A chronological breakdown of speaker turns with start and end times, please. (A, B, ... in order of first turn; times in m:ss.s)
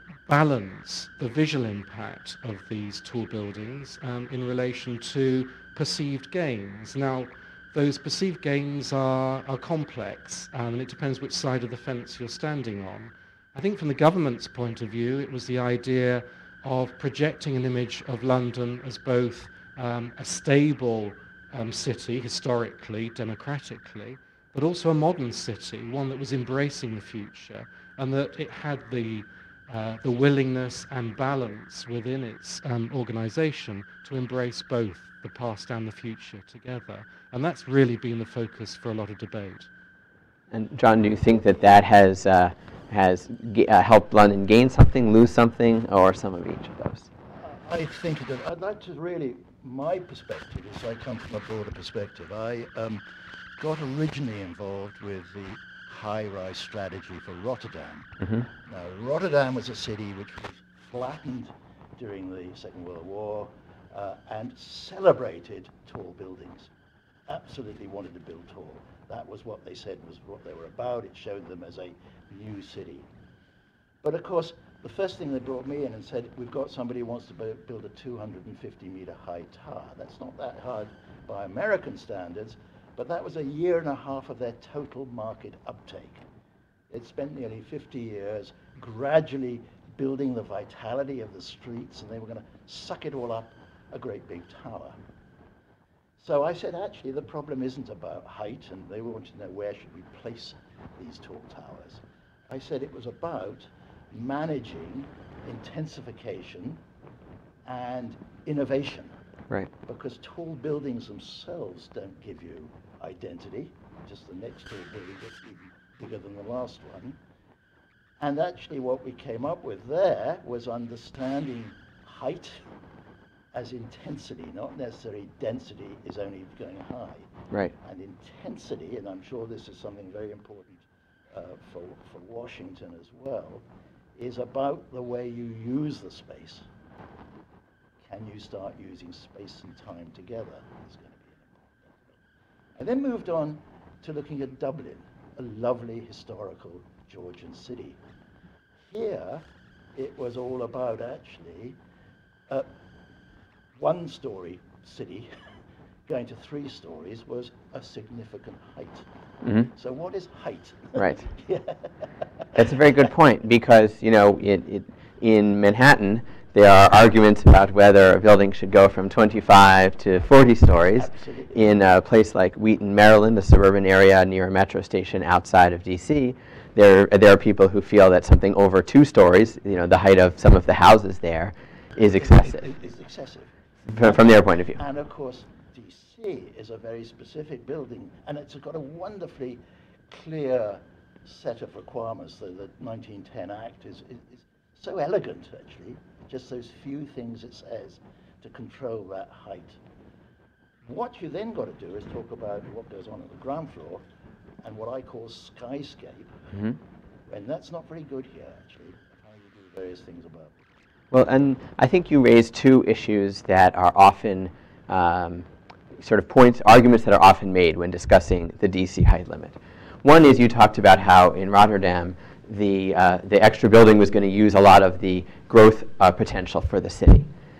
0:00.3-0:39.7 A
0:40.5-0:47.1 B
0:47.4-0:53.0 C
0:53.6-1:06.7 C
0:58.2-0:58.5 B
1:07.3-1:13.1 C
1:14.0-1:26.2 C
1:26.9-1:35.0 C
1:36.2-1:46.8 C
1:47.6-1:49.1 C
1:49.8-1:57.2 C
1:58.2-2:02.6 C
2:03.5-2:13.6 C
2:14.2-2:16.6 C
2:18.0-2:22.2 C
2:22.8-2:28.0 C
2:28.9-2:29.4 C
2:29.9-2:31.8 C
2:33.7-2:35.3 C
2:36.0-2:39.0 C
2:39.4-2:39.7 B
2:39.7-2:41.9 C
2:41.0-2:41.2 B
2:42.5-3:02.6 B
2:51.0-2:51.6 C
3:02.0-3:19.8 C
3:03.9-3:04.8 B
3:20.8-3:24.0 C
3:24.6-3:26.4 C
3:26.5-3:26.8 B
3:27.3-3:30.6 C
3:31.1-3:35.5 B
3:36.0-3:47.3 B